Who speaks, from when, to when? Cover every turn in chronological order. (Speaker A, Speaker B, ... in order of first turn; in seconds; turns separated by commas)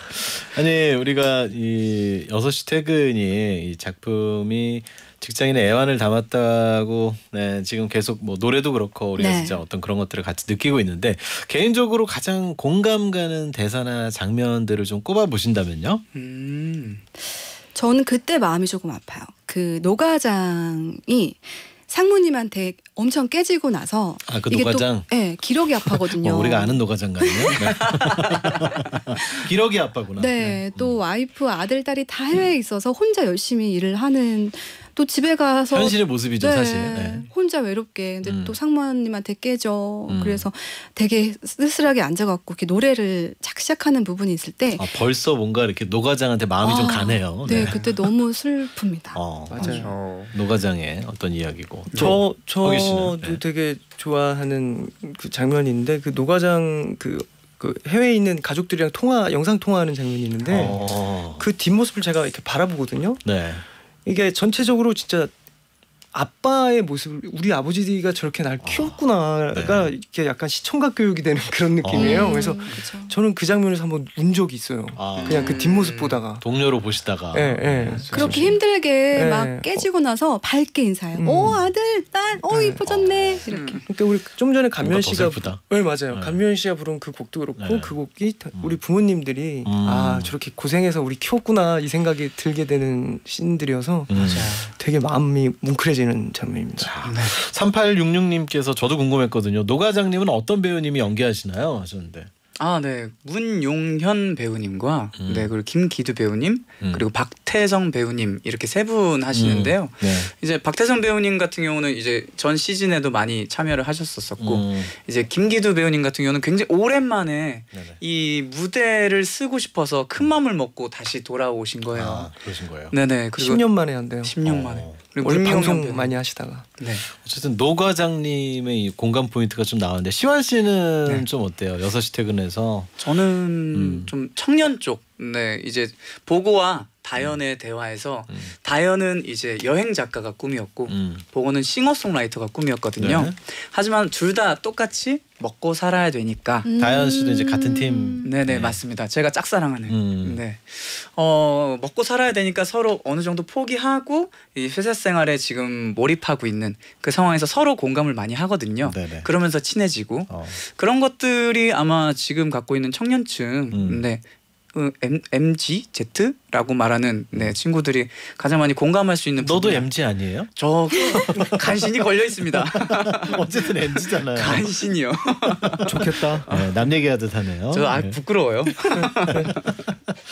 Speaker A: 0.1-16.0, Speaker B: 9.2-9.6, Speaker C: 16.1-17.0, Speaker B: 17.7-27.6, Speaker A: 24.3-25.1, Speaker A: 25.9-31.0, Speaker C: 27.6-28.5, Speaker B: 29.2-29.4, Speaker B: 30.1-44.9, Speaker A: 35.7-37.3, Speaker A: 38.2-38.6, Speaker A: 40.1-40.5, Speaker A: 44.7-47.8, Speaker B: 46.6-49.8, Speaker C: 47.5-47.8, Speaker A: 49.1-53.4, Speaker D: 49.5-49.9, Speaker C: 49.6-50.3, Speaker C: 51.9-52.1, Speaker D: 51.9-60.8, Speaker A: 60.5-61.4, Speaker D: 61.3-63.2, Speaker A: 63.2-63.6, Speaker D: 64.0-65.3, Speaker D: 66.1-76.4, Speaker A: 68.6-69.9, Speaker A: 71.8-72.4, Speaker B: 71.9-73.1, Speaker C: 72.3-72.7, Speaker A: 75.0-75.6, Speaker C: 75.2-76.2, Speaker A: 76.4-78.6, Speaker D: 77.3-78.6, Speaker C: 77.9-78.1, Speaker B: 78.1-83.8, Speaker D: 79.1-79.9, Speaker D: 81.2-81.6, Speaker D: 82.5-82.8, Speaker A: 82.8-83.4, Speaker C: 83.5-83.8, Speaker D: 83.9-96.9, Speaker A: 84.8-86.4, Speaker A: 87.6-88.0, Speaker A: 88.5-88.8, Speaker A: 89.6-90.3, Speaker A: 94.1-94.6, Speaker C: 94.1-94.7, Speaker A: 96.8-102.3, Speaker C: 97.0-97.4, Speaker C: 102.6-122.3, Speaker A: 105.2-105.5, Speaker A: 106.8-107.1, Speaker A: 109.3-110.3, Speaker A: 114.4-114.9, Speaker A: 117.7-118.0, Speaker A: 122.0-122.9, Speaker C: 122.9-123.7, Speaker D: 123.4-124.3, Speaker C: 124.2-126.2, Speaker A: 124.4-125.0, Speaker D: 125.2-126.7, Speaker C: 126.8-127.1, Speaker A: 127.1-133.0, Speaker C: 133.0-146.7, Speaker A: 133.7-134.1, Speaker A: 140.9-141.2, Speaker A: 143.0-143.3, Speaker B: 146.6-148.3, Speaker A: 146.8-148.8, Speaker C: 148.2-164.2, Speaker A: 149.9-150.4, Speaker A: 158.8-159.3, Speaker A: 160.3-160.6, Speaker A: 163.7-164.0, Speaker C: 164.7-169.9, Speaker A: 169.4-170.5, Speaker C: 170.5-175.8, Speaker A: 171.1-171.8, Speaker A: 172.8-174.6, Speaker A: 175.6-178.2, Speaker D: 175.8-176.5, Speaker C: 177.7-179.7